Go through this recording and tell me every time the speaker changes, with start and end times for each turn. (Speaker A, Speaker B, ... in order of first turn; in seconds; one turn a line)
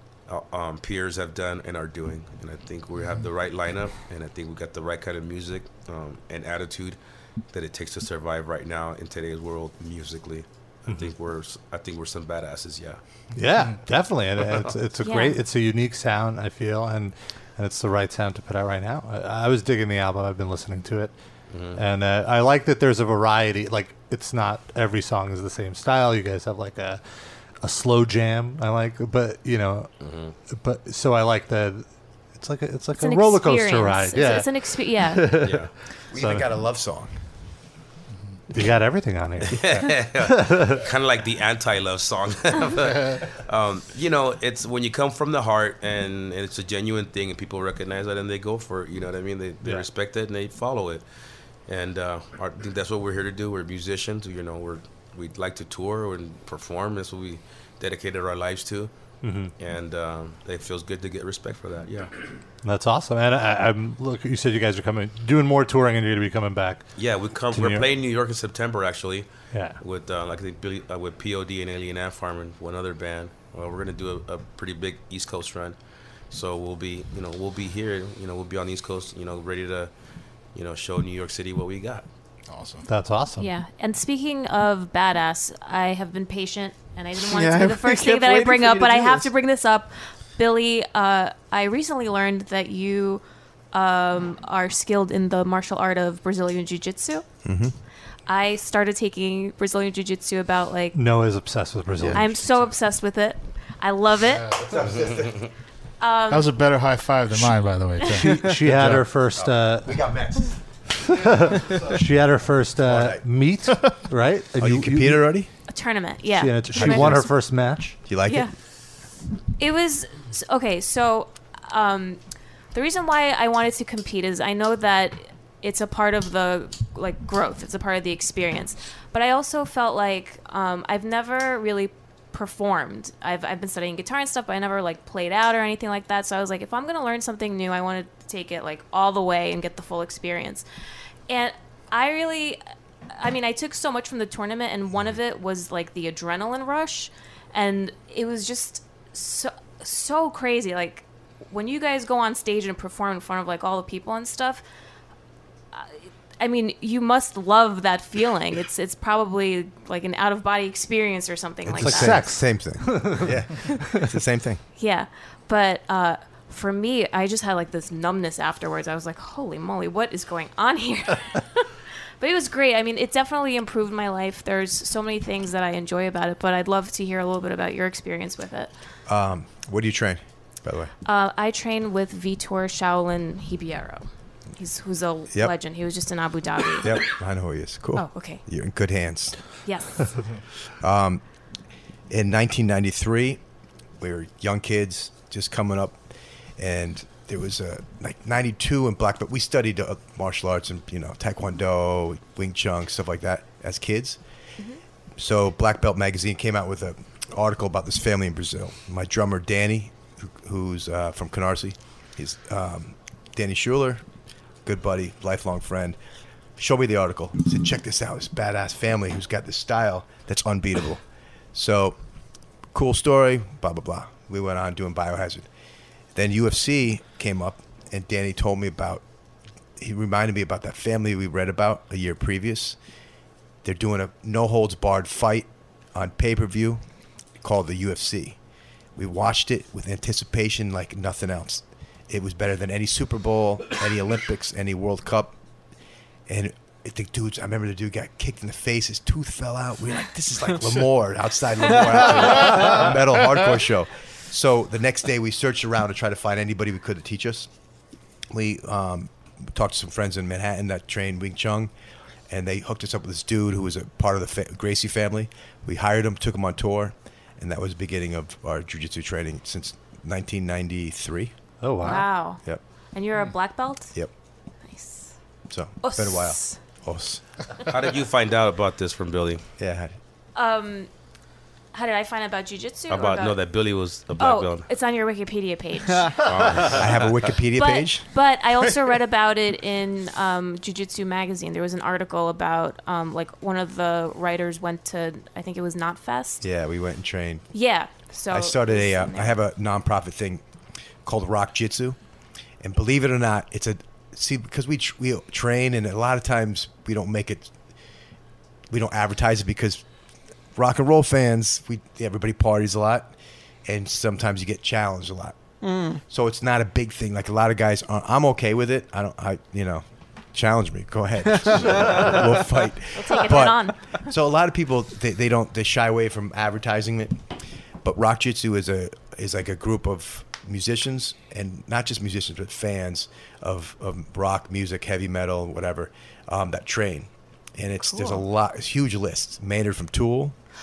Speaker A: 0.3-7.0
Speaker A: 7.5-13.0
Speaker B: 10.9-11.1
Speaker B: 13.4-21.1
Speaker C: 15.0-15.4
Speaker A: 21.5-21.8
Speaker B: 21.8-27.0
Speaker B: 27.6-29.9
Speaker A: 30.0-30.4
Speaker B: 30.5-36.5
Speaker C: 33.0-35.3
Speaker A: 35.4-35.7
Speaker D: 36.1-37.2
Speaker B: 38.5-40.8
Speaker A: 39.5-51.0
Speaker A: 51.7-58.9
Speaker B: 59.2-59.5
Speaker A: 59.6-62.1
Speaker B: 62.6-66.9
Speaker A: 67.0-69.3
Speaker B: 67.5-67.9
Speaker B: 69.5-69.8
Speaker A: 69.8-75.8
Speaker A: 76.3-79.9
Speaker A: 80.5-82.0
Speaker E: 82.5-82.9
Speaker B: 82.9-83.5
Speaker C: 83.4-97.2
Speaker F: 87.2-89.3
Speaker D: 97.4-97.7
Speaker C: 98.3-101.0
Speaker B: 100.9-102.7
Speaker C: 102.1-104.5
Speaker D: 104.6-105.5
Speaker C: 106.0-106.5
Speaker E: 106.3-108.5
Speaker B: 108.2-110.0
Speaker D: 108.6-110.6
Speaker B: 111.1-115.3
Speaker D: 112.8-113.4
Speaker D: 114.6-115.5
Speaker C: 115.7-117.4
Speaker B: 116.4-118.0
Speaker D: 116.7-117.3
Speaker D: 118.0-118.5
Speaker C: 118.2-118.5
Speaker C: 119.6-122.2
Speaker C: 122.7-140.7
Speaker C: 141.3-142.6
Speaker C: 143.2-154.6
Speaker C: 155.7-162.4
Speaker D: 161.7-164.6
Speaker B: 161.8-164.0
Speaker C: 164.8-178.7
Speaker D: 179.1-180.9
Speaker C: 181.1-187.0
Speaker D: 185.3-185.6
Speaker D: 186.8-189.4
Speaker C: 187.9-188.4
Speaker C: 189.6-190.2
Speaker D: 190.8-191.2
Speaker D: 192.1-193.4
Speaker D: 194.0-196.0
Speaker D: 196.6-204.2
Speaker D: 205.2-214.0
Speaker D: 214.7-216.0
Speaker D: 216.6-222.0
Speaker D: 222.7-225.5
Speaker D: 226.1-229.0
Speaker D: 229.8-232.8
Speaker D: 233.6-236.8
Speaker D: 237.4-238.4
Speaker D: 238.9-245.3
Speaker D: 246.3-257.5
Speaker D: 258.3-261.7
Speaker D: 262.3-271.3
Speaker B: 271.6-272.1
Speaker C: 271.8-273.9
Speaker C: 274.7-275.1
Speaker D: 275.5-277.2
Speaker C: 275.8-276.6
Speaker A: 277.7-279.4
Speaker D: 279.6-279.9
Speaker C: 280.4-280.9
Speaker C: 281.7-283.4
Speaker A: 282.9-284.7
Speaker C: 284.2-286.2
Speaker A: 286.2-287.3
Speaker D: 286.6-288.1
Speaker C: 287.5-296.4
Speaker D: 296.4-297.6
Speaker C: 297.5-299.4
Speaker D: 298.3-300.4
Speaker D: 301.1-302.0
Speaker D: 302.6-307.5
Speaker D: 308.7-309.8
Speaker D: 310.6-313.1
Speaker D: 313.6-315.6
Speaker F: 315.6-316.0
Speaker D: 316.1-327.2
Speaker C: 322.9-323.8
Speaker D: 327.8-340.3
Speaker C: 337.9-338.2